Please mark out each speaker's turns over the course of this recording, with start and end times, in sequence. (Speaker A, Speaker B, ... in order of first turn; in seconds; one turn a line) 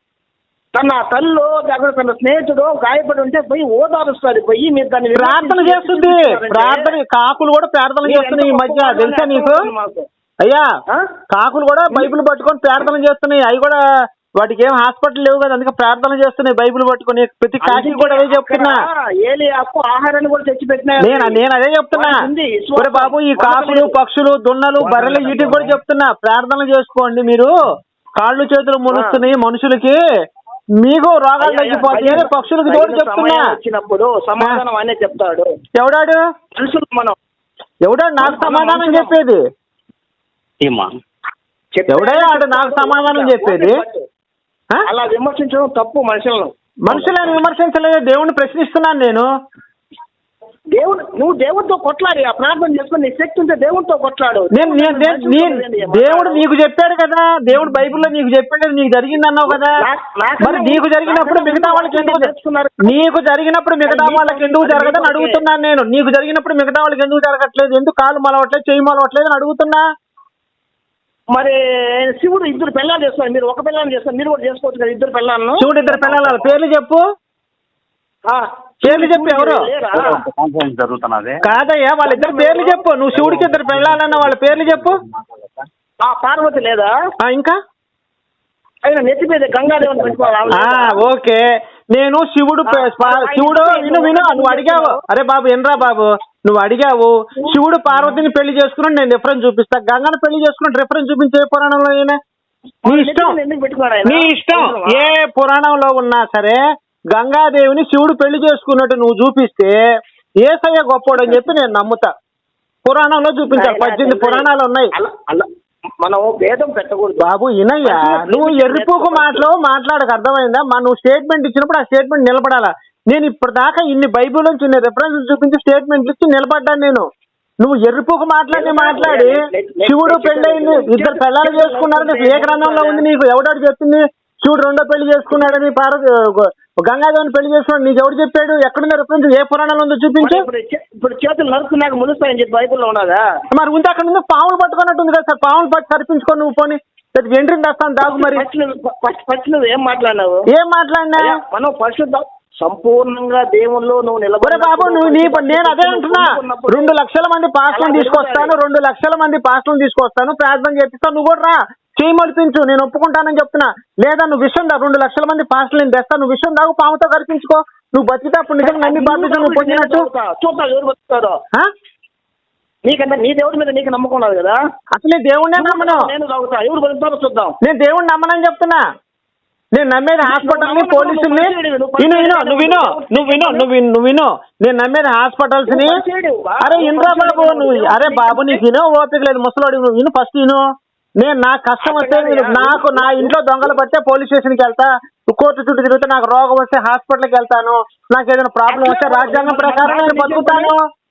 Speaker A: 0.7-7.0
Speaker B: 5.1-9.7
Speaker A: 8.0-10.1
Speaker B: 10.4-10.7
Speaker B: 11.3-13.8
Speaker B: 14.4-18.7
Speaker A: 17.6-23.9
Speaker B: 21.0-22.1
Speaker B: 22.8-27.5
Speaker C: 24.8-25.7
Speaker B: 28.2-30.0
Speaker A: 28.9-29.2
Speaker B: 30.8-33.4
Speaker A: 31.4-35.5
Speaker B: 35.8-36.2
Speaker A: 36.5-37.1
Speaker B: 37.9-39.4
Speaker A: 38.2-39.1
Speaker C: 40.6-40.9
Speaker A: 41.8-44.0
Speaker B: 41.9-43.8
Speaker A: 44.8-46.5
Speaker B: 46.8-49.2
Speaker C: 46.9-47.4
Speaker A: 50.7-56.4
Speaker B: 54.5-59.8
Speaker A: 59.5-63.0
Speaker B: 60.4-62.3
Speaker B: 62.8-69.8
Speaker A: 63.8-65.4
Speaker A: 71.3-75.7
Speaker B: 75.6-77.0
Speaker C: 75.9-76.6
Speaker A: 78.3-80.2
Speaker B: 78.8-79.7
Speaker C: 79.9-81.4
Speaker B: 81.4-85.0
Speaker A: 82.0-82.8
Speaker C: 83.1-85.7
Speaker A: 86.0-86.9
Speaker B: 87.2-87.6
Speaker A: 88.8-91.0
Speaker C: 89.9-90.5
Speaker B: 90.5-102.2
Speaker A: 92.7-95.0
Speaker A: 102.8-105.1
Speaker B: 102.8-103.3
Speaker B: 104.0-106.6
Speaker B: 107.1-109.8
Speaker B: 110.4-112.1
Speaker A: 111.1-111.5
Speaker B: 112.8-114.9
Speaker A: 113.5-115.5
Speaker A: 116.0-117.3
Speaker B: 117.2-127.1
Speaker A: 117.8-119.5
Speaker B: 127.6-129.3
Speaker A: 128.5-133.1
Speaker B: 129.8-140.4
Speaker A: 140.2-143.2
Speaker B: 143.5-148.4
Speaker A: 148.0-150.4
Speaker B: 150.5-151.4
Speaker A: 151.2-156.9
Speaker B: 154.4-170.1
Speaker A: 157.7-158.5
Speaker A: 168.6-171.4
Speaker A: 172.8-174.6
Speaker B: 174.9-176.1
Speaker A: 175.5-177.5
Speaker B: 177.6-178.8
Speaker B: 179.7-186.0
Speaker A: 180.2-183.7
Speaker A: 185.7-188.6
Speaker B: 186.6-190.6
Speaker B: 191.2-200.8
Speaker A: 191.8-193.7
Speaker A: 198.7-200.7